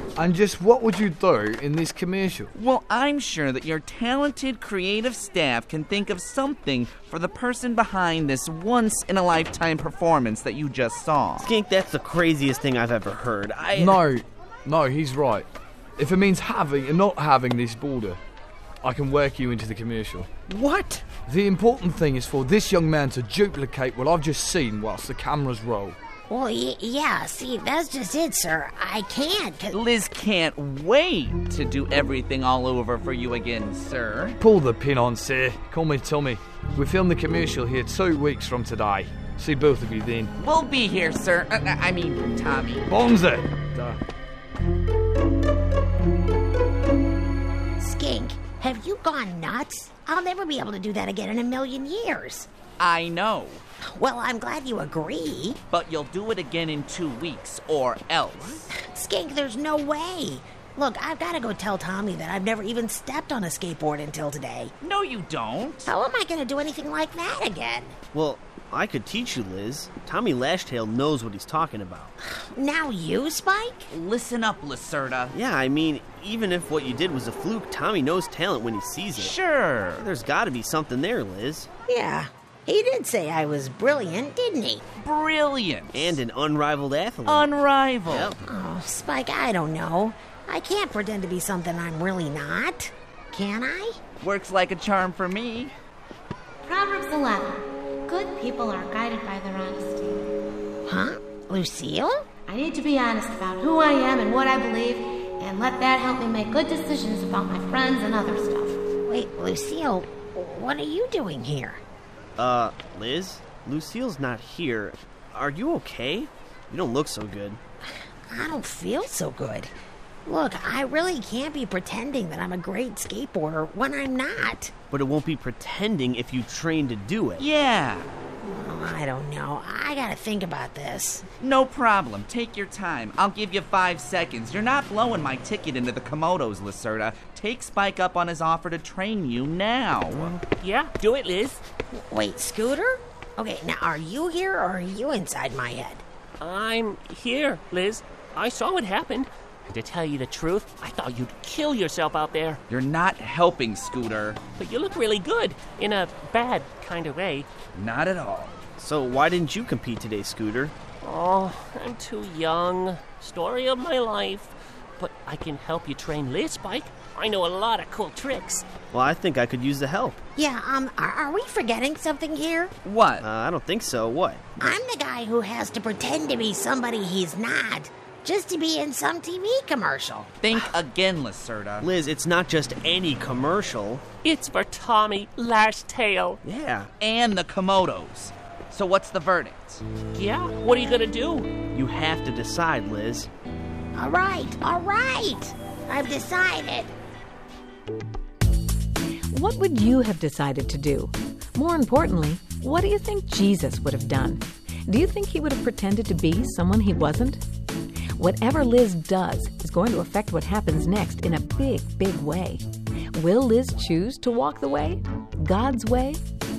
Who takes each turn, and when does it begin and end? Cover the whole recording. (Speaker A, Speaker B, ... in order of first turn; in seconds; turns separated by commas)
Speaker A: 0.2-2.5, Speaker B: 2.5-11.5, Speaker C: 11.4-14.0, Speaker A: 13.7-15.5, Speaker A: 16.0-18.2, Speaker A: 18.8-20.3, Speaker C: 20.5-21.1, Speaker A: 21.1-26.0, Speaker D: 26.3-29.8, Speaker B: 29.7-34.4, Speaker A: 34.4-40.3, Speaker B: 40.4-42.9, Speaker A: 42.9-44.0, Speaker D: 47.8-52.5, Speaker B: 52.8-53.6, Speaker D: 54.0-55.6, Speaker B: 55.7-58.7, Speaker D: 58.8-64.7, Speaker B: 64.8-65.9, Speaker D: 65.8-68.0, Speaker C: 68.1-72.1, Speaker D: 72.5-73.9, Speaker B: 73.9-75.3, Speaker C: 75.3-79.3, Speaker B: 79.1-80.1, Speaker C: 80.0-81.7, Speaker D: 81.9-84.8, Speaker B: 85.0-86.2, Speaker C: 85.9-87.5, Speaker B: 87.2-88.3, Speaker C: 88.0-88.4, Speaker D: 88.4-94.0, Speaker B: 94.2-95.7, Speaker E: 96.6-100.3, Speaker D: 100.9-102.2, Speaker E: 102.5-108.8, Speaker D: 109.1-111.8, Speaker C: 112.4-117.6, Speaker D: 118.3-119.7, Speaker D: 120.3-124.7, Speaker C: 124.9-127.5, Speaker B: 127.4-128.1, Speaker D: 128.4-131.3, Speaker B: 131.4-140.3, Speaker F: 140.1-141.6, Speaker D: 142.0-146.0, Speaker F: 146.4-152.6, Speaker B: 152.7-154.4, Speaker F: 154.6-157.5, Speaker B: 157.8-158.6, Speaker C: 158.8-160.8, Speaker F: 161.0-168.7, Speaker C: 168.9-170.2, Speaker D: 170.4-172.7, Speaker B: 172.8-173.3, Speaker C: 173.2-174.7, Speaker D: 174.6-180.4, Speaker B: 180.4-181.9, Speaker C: 181.8-184.0, Speaker F: 184.2-186.4, Speaker C: 186.4-186.9, Speaker B: 187.0-189.8, Speaker F: 190.1-191.6, Speaker C: 191.7-193.3, Speaker D: 193.9-196.9, Speaker G: 199.3-207.4, Speaker G: 208.2-212.6, Speaker G: 213.1-216.2